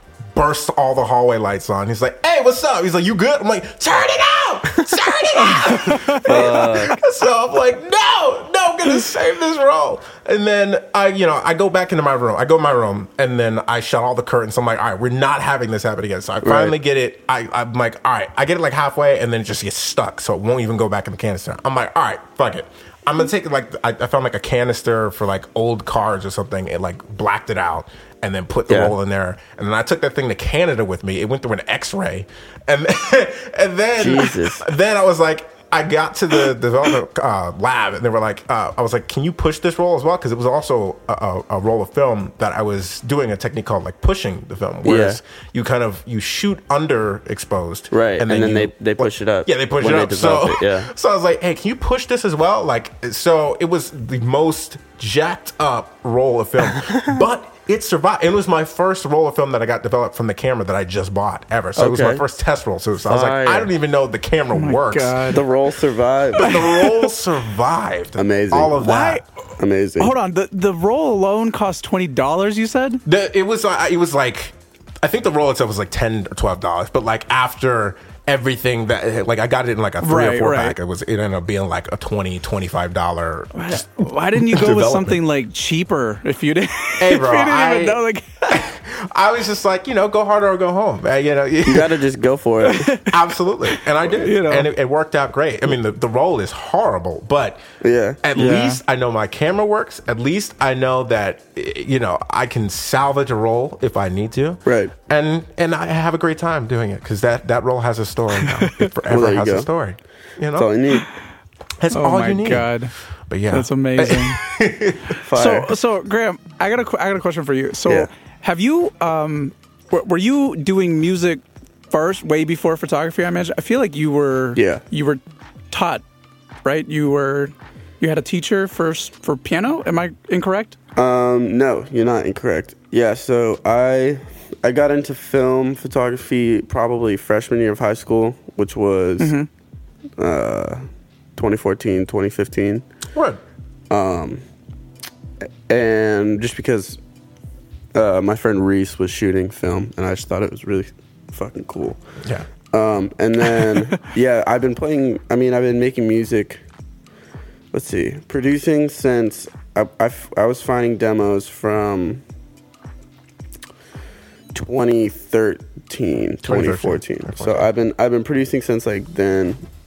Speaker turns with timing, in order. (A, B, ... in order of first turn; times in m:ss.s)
0:00.3-1:05.4 A
0:05.4-0:06.6 B
0:06.2-0:06.9 C
0:16.4-0:16.7 C
0:28.7-0:28.9 C
0:34.0-0:34.7 C
0:44.8-0:45.2 C
0:47.9-0:50.9 C
0:56.8-0:57.2 C
1:01.8-1:02.2 C
1:03.0-1:03.7 C
1:04.5-1:05.4 B
1:05.3-1:06.5 C
1:06.3-1:09.2 A
1:06.4-1:07.1 B
1:08.2-1:08.8 C
1:08.8-1:09.2 B
1:09.6-1:10.1 C
1:10.0-1:13.0 B
1:13.0-1:25.2 A
1:20.0-1:20.8 B
1:23.6-1:28.6 B
1:27.0-1:32.0 A
1:31.6-1:32.9 C
1:32.6-1:34.7 B
1:33.1-1:37.6 A
1:37.8-1:38.8 C
1:38.2-1:50.7 A
1:38.4-1:38.8 B
1:44.6-1:44.9 C
1:48.5-1:48.9 B
1:49.1-1:49.7 C
1:50.5-1:51.1 C
1:51.8-1:52.7 A
1:51.9-1:52.9 B
1:53.3-1:55.1 A
1:53.5-1:54.4 B
1:55.2-1:55.7 C
1:55.3-2:05.2 B
2:04.5-2:04.8 C
2:05.7-2:06.0 B
2:06.6-2:10.8 B
2:11.0-2:19.4 C
2:19.2-2:19.5 B
2:20.2-2:22.8 C
2:23.1-2:23.4 A
2:23.9-2:24.4 C
2:25.7-2:27.0 C
2:27.9-2:32.0 C
2:32.2-2:32.5 A
2:32.7-2:36.6 C
2:37.7-2:42.2 C
2:44.5-2:49.6 C
2:46.4-2:47.7 A